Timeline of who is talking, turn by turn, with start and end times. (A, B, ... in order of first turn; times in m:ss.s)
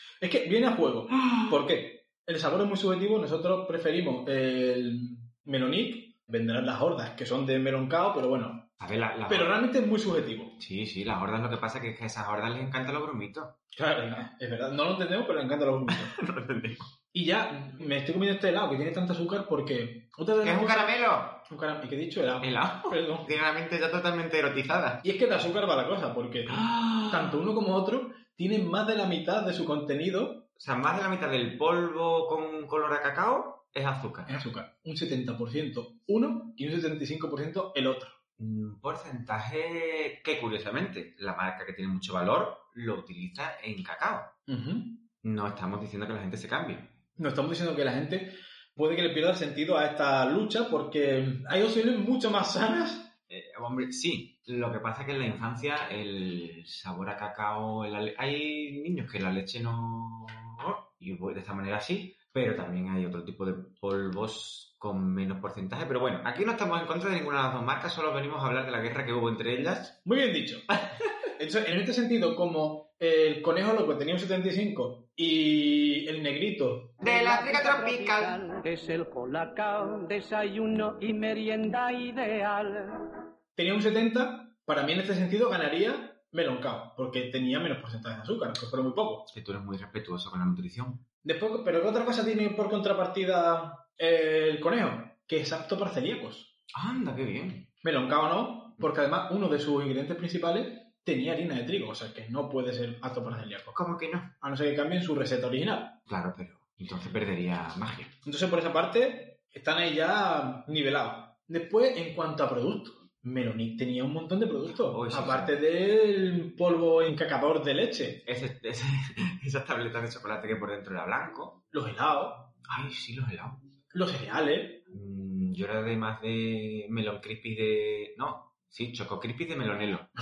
0:00.2-0:08.7 A
0:08.8-0:09.6 B
0:09.3-0:10.6 A
0:10.6-0:13.5 B
0:13.7-0:16.1 A
0:15.9-0:16.9 B
0:17.1-0:23.3 A
0:20.4-0:21.4 B
0:22.4-0:25.0 B
0:25.0-0:30.4 A
0:26.5-0:27.4 B
0:30.6-0:34.4 B
0:34.3-0:38.2 A
0:38.4-0:44.3 B
0:44.5-0:45.0 A
0:45.2-0:47.0 B
0:47.2-0:53.1 A
0:53.3-1:10.0 B
1:10.0-1:10.7 A
1:11.4-1:17.0 A
1:17.0-1:18.4 B
1:17.0-1:23.0 C
1:23.6-1:29.3 A
1:29.3-1:31.0 B
1:31.2-1:36.5 A
1:36.7-1:37.7 B
1:37.8-1:43.7 A
1:43.7-1:44.3 B
1:44.4-1:46.0 A
1:46.1-1:48.1 B
1:48.2-1:58.2 A
1:54.7-1:55.5 B
1:58.2-2:01.6 B
2:01.7-2:02.5 A
2:02.7-2:03.6 B
2:03.9-2:04.8 A
2:04.9-2:10.1 B